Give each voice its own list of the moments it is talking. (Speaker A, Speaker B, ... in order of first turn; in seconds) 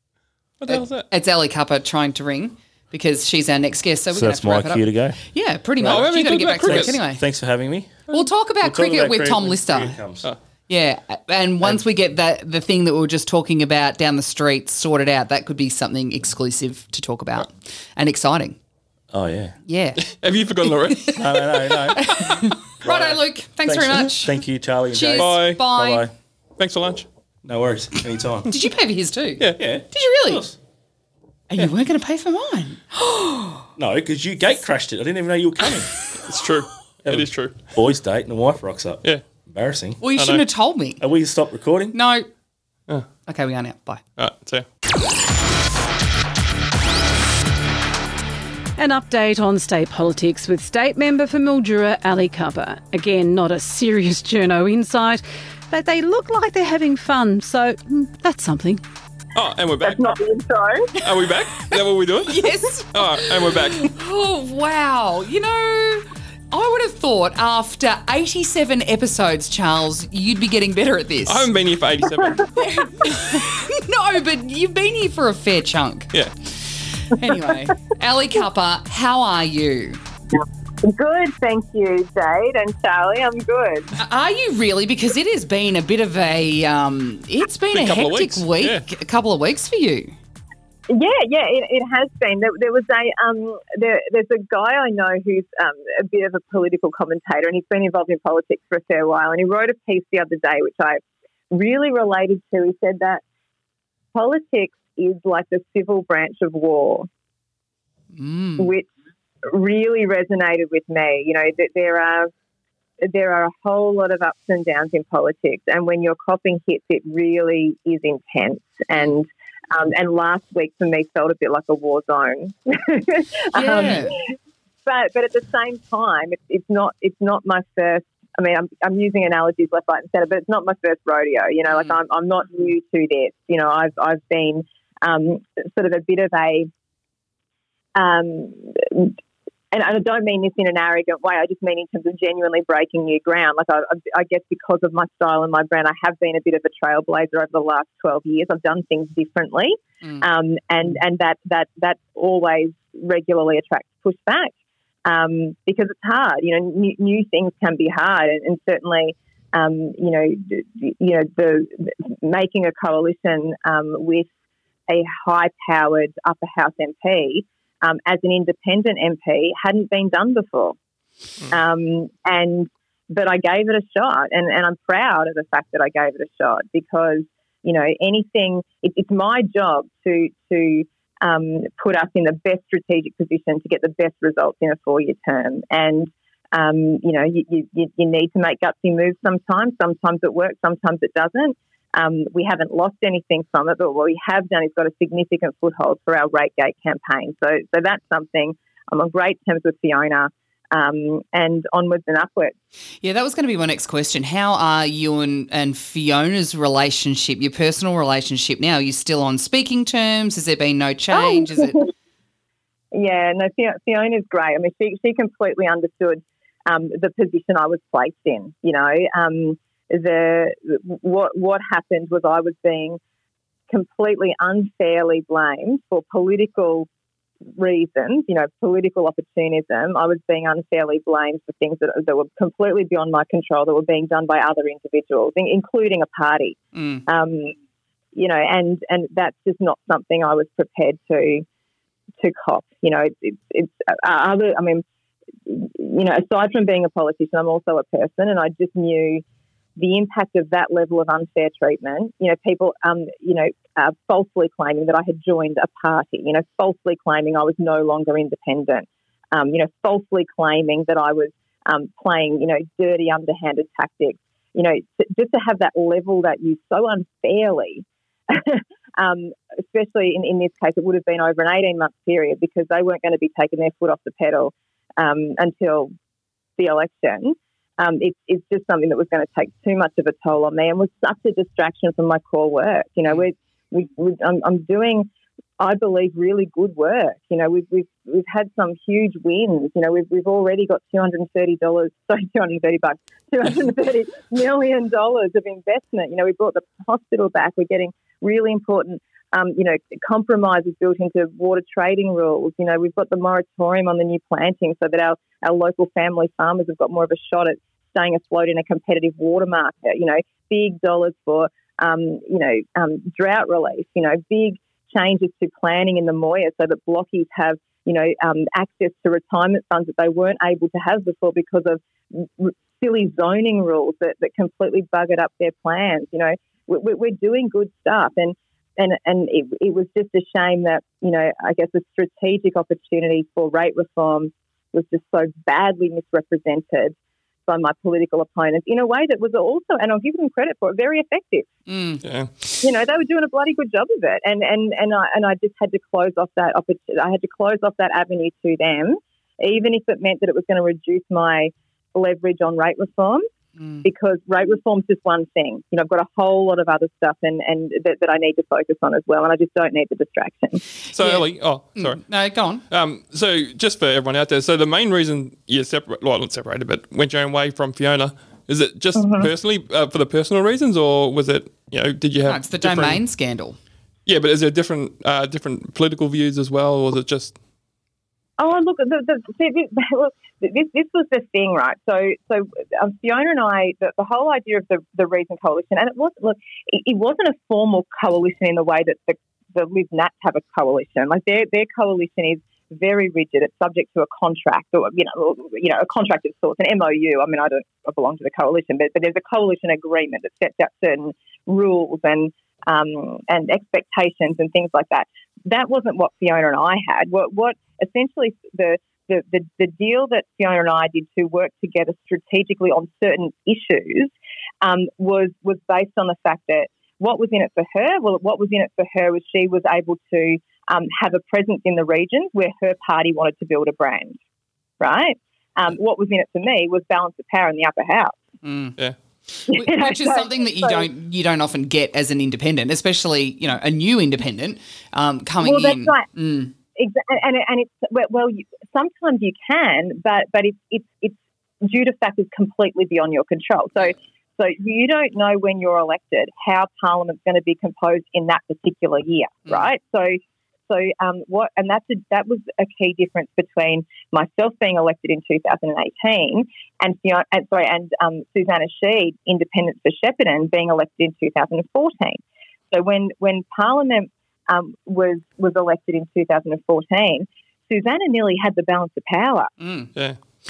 Speaker A: 0.6-1.1, 5.8-7.0, 20.0-21.5, 25.2-25.6, 26.6-27.1, 36.2-37.6, 40.2-40.4, 44.2-44.6, 59.3-60.1, 61.0-63.9, 71.3-72.5, 73.0-73.4, 87.7-88.8, 342.0-342.3, 360.9-362.0, 362.6-373.0, 374.1-377.4
Speaker B: 0.7-7.2, 8.1-9.9, 10.7-18.6, 19.6-20.0, 20.9-21.2, 21.9-24.4, 24.9-26.1, 28.5-30.4, 31.5-33.6, 40.0-41.0, 41.9-42.3, 43.2-44.0, 62.3-71.5, 72.5-80.0, 84.0-90.1, 108.1-108.7, 123.5-124.2, 203.0-211.8, 236.7-237.0, 341.7-342.0, 353.6-353.8, 361.0-361.2, 361.8-362.6, 372.2-373.6, 428.4-428.8, 429.5-436.5, 469.6-469.9
Speaker C: 4.1-5.2, 5.8-8.1, 8.6-10.3, 19.1-19.6, 21.1-26.1, 27.4-28.5, 29.6-30.6, 33.8-35.9, 37.0-40.0, 41.0-42.0
Speaker D: 48.8-58.8
Speaker E: 59.8-60.9, 80.8-84.0, 90.9-103.2, 104.1-107.1, 108.6-108.9, 109.5-112.3, 113.0-124.3, 124.8-136.7, 137.9-139.2, 139.7-154.5, 155.1-164.3, 164.9-170.8, 171.5-202.5, 211.1-211.9, 212.9-223.0, 223.7-226.9, 227.6-237.5, 238.1-241.4, 242.2-244.8, 245.4-249.2, 249.8-275.9, 276.6-285.1, 285.6-336.9, 337.5-341.5, 342.6-353.2, 353.8-360.6, 368.9-369.3, 378.4-424.2, 424.8-428.2, 429.5-430.9, 435.4-436.1, 436.8-462.2, 462.7-469.5